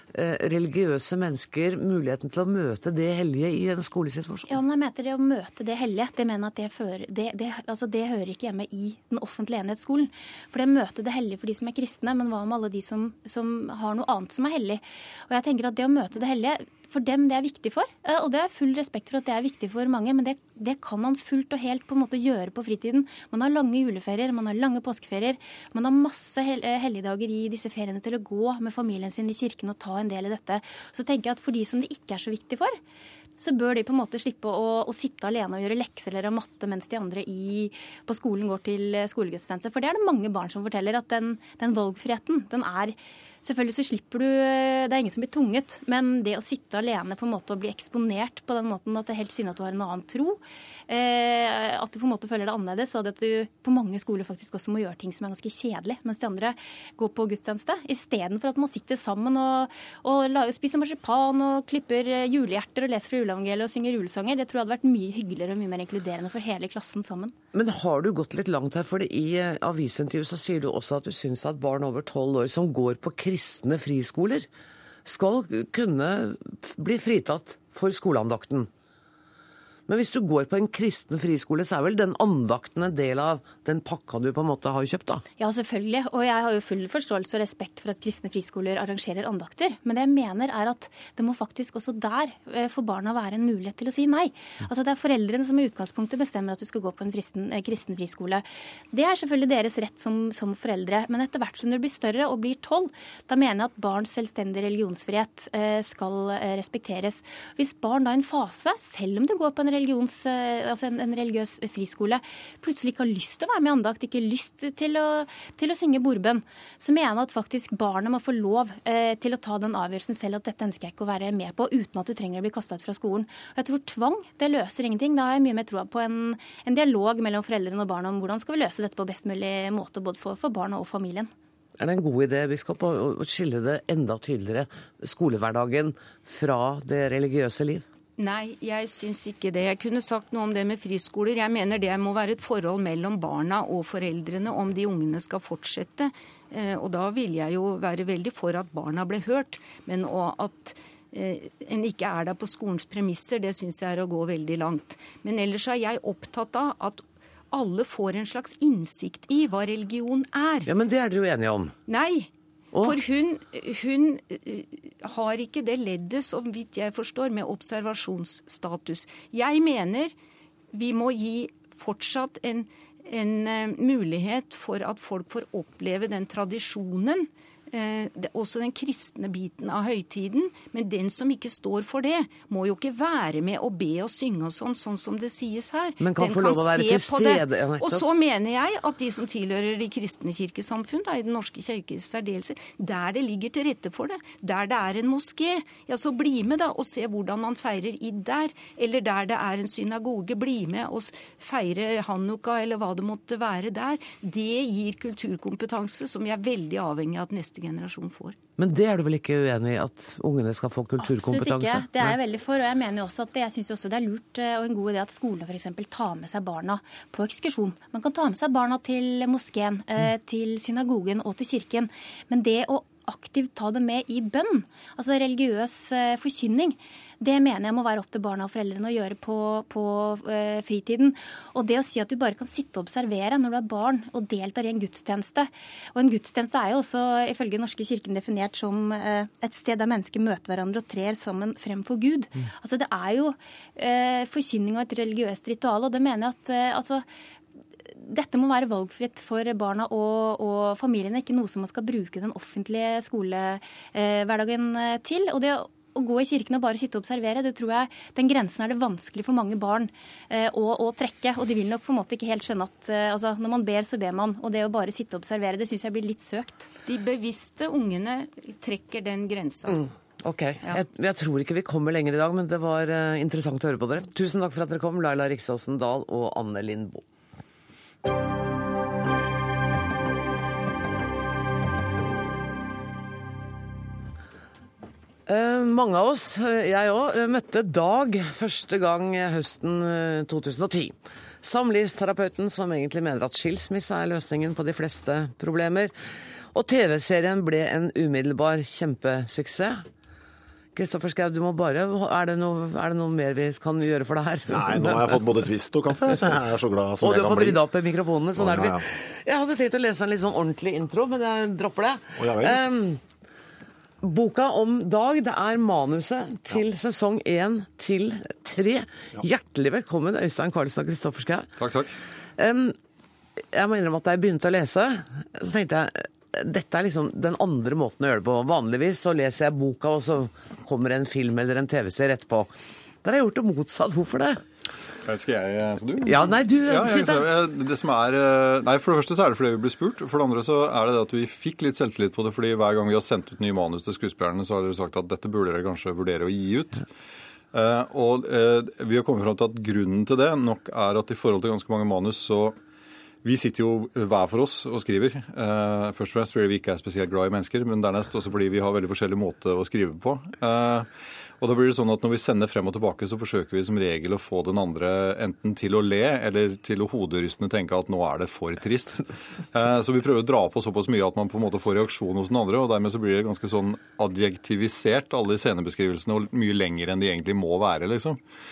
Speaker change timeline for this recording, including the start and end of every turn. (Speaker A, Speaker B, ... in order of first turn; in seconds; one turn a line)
Speaker A: 0.1-4.6
Speaker B: 4.5-32.8
Speaker B: 33.4-67.3
Speaker A: 67.5-74.5
Speaker A: 75.0-78.7
Speaker A: 79.9-85.2
Speaker B: 85.4-131.3
Speaker A: 131.8-137.9
Speaker C: 138.2-160.7
Speaker A: 160.7-161.7
Speaker C: 161.9-170.1
Speaker A: 162.7-163.0
Speaker C: 170.7-208.4
Speaker A: 186.0-188.0
Speaker A: 208.6-212.2
Speaker B: 211.0-247.1
Speaker B: 247.9-266.7
Speaker C: 266.9-269.9
Speaker A: 269.7-277.1
Speaker A: 285.3-295.9
Speaker A: 296.5-299.8
Speaker A: 300.8-305.2
Speaker D: 304.5-307.6
Speaker A: 307.0-313.0
Speaker D: 308.4-308.9
Speaker D: 312.2-312.6
Speaker A: 314.0-321.5
Speaker E: 321.6-321.9
Speaker A: 322.4-322.8
Speaker A: 323.5-332.5
Speaker A: 333.0-334.4
Speaker E: 335.1-346.9
Speaker A: 336.1-337.2
Speaker E: 347.5-352.6
Speaker E: 353.2-360.9
Speaker E: 361.4-378.2